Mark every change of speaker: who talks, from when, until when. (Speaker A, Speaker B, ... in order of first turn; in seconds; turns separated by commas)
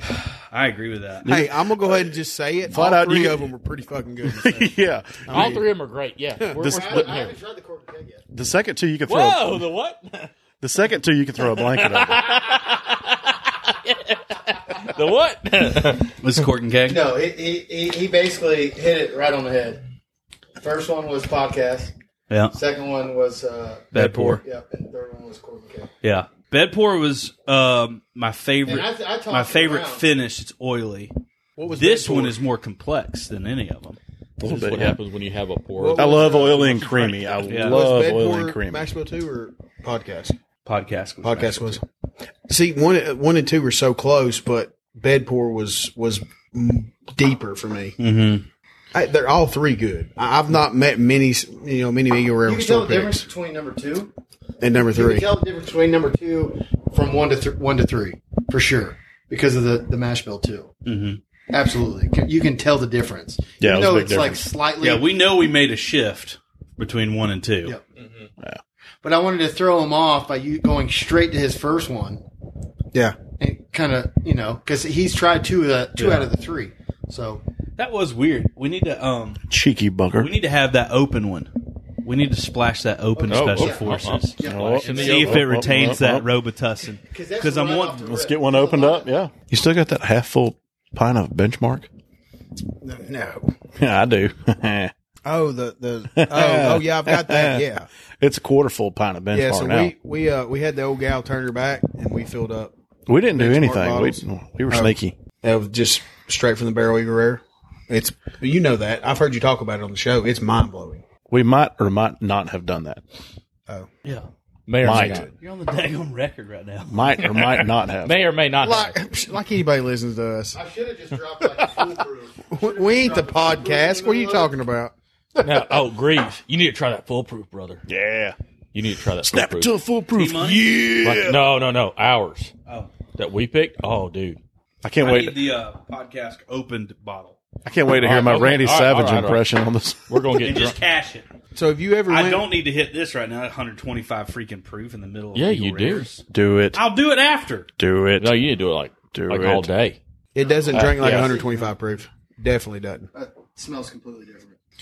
Speaker A: 0.5-1.3, Speaker B: 1.2-2.1, Speaker C: 1.2-5.7, Speaker B: 2.7-3.5, Speaker B: 4.3-5.6, Speaker D: 5.3-7.3, Speaker C: 6.4-6.7, Speaker B: 6.6-7.3, Speaker E: 6.6-8.2, Speaker B: 8.3-9.7, Speaker D: 9.1-10.3, Speaker B: 10.6-12.5, Speaker D: 11.5-16.1, Speaker A: 16.2-17.0, Speaker E: 16.9-19.8, Speaker E: 20.6-21.9, Speaker A: 22.3-22.5, Speaker E: 22.5-25.9, Speaker A: 23.9-24.4, Speaker A: 26.0-31.1, Speaker E: 28.6-30.1, Speaker C: 31.6-32.4, Speaker A: 31.7-34.0, Speaker B: 34.4-35.0, Speaker D: 34.4-36.6, Speaker C: 35.8-36.9, Speaker B: 35.9-38.9, Speaker A: 37.3-37.8, Speaker C: 37.6-40.4, Speaker A: 40.6-41.8, Speaker C: 41.2-41.8, Speaker C: 42.5-48.0, Speaker A: 48.0-48.5, Speaker C: 48.9-53.3, Speaker E: 52.5-54.1, Speaker C: 54.6-55.3, Speaker E: 54.9-60.7, Speaker A: 60.8-61.2, Speaker E: 61.5-65.1, Speaker B: 63.6-64.4, Speaker A: 64.8-67.7, Speaker D: 68.0-68.2, Speaker E: 69.0-72.2, Speaker E: 73.4-77.4, Speaker A: 76.0-76.3, Speaker A: 77.8-79.4, Speaker B: 79.5-80.3, Speaker A: 80.2-81.5, Speaker A: 82.0-88.0, Speaker E: 83.2-85.4, Speaker D: 83.3-85.5, Speaker B: 84.4-86.2, Speaker E: 87.1-89.1, Speaker B: 88.0-91.9, Speaker C: 92.8-93.5, Speaker B: 93.8-94.9, Speaker C: 95.2-97.9, Speaker B: 96.1-97.6, Speaker B: 98.2-99.9, Speaker C: 99.3-102.7, Speaker B: 103.1-105.2, Speaker C: 103.3-111.0, Speaker B: 111.3-113.0, Speaker D: 114.7-115.3, Speaker B: 114.8-115.3, Speaker C: 114.9-115.3, Speaker A: 115.4-117.2, Speaker B: 116.8-118.2, Speaker D: 117.2-119.0, Speaker C: 118.6-120.6, Speaker E: 120.5-124.5, Speaker C: 122.5-124.9, Speaker D: 125.4-127.8, Speaker B: 127.9-128.3, Speaker D: 128.7-129.7, Speaker B: 129.2-131.4, Speaker A: 130.1-130.7, Speaker D: 131.0-132.5, Speaker A: 132.7-132.9, Speaker D: 133.2-134.4, Speaker B: 134.8-135.4, Speaker A: 135.0-137.4, Speaker B: 137.6-140.2, Speaker D: 137.9-139.5, Speaker D: 140.1-140.8, Speaker A: 140.4-141.3, Speaker C: 141.5-142.5, Speaker A: 142.1-146.2, Speaker D: 145.3-146.1, Speaker B: 146.3-146.8, Speaker A: 146.7-147.7, Speaker B: 147.8-148.3, Speaker D: 148.2-150.0, Speaker B: 149.1-149.7, Speaker C: 150.3-153.1, Speaker E: 150.4-151.7, Speaker D: 150.8-151.3, Speaker E: 153.1-154.6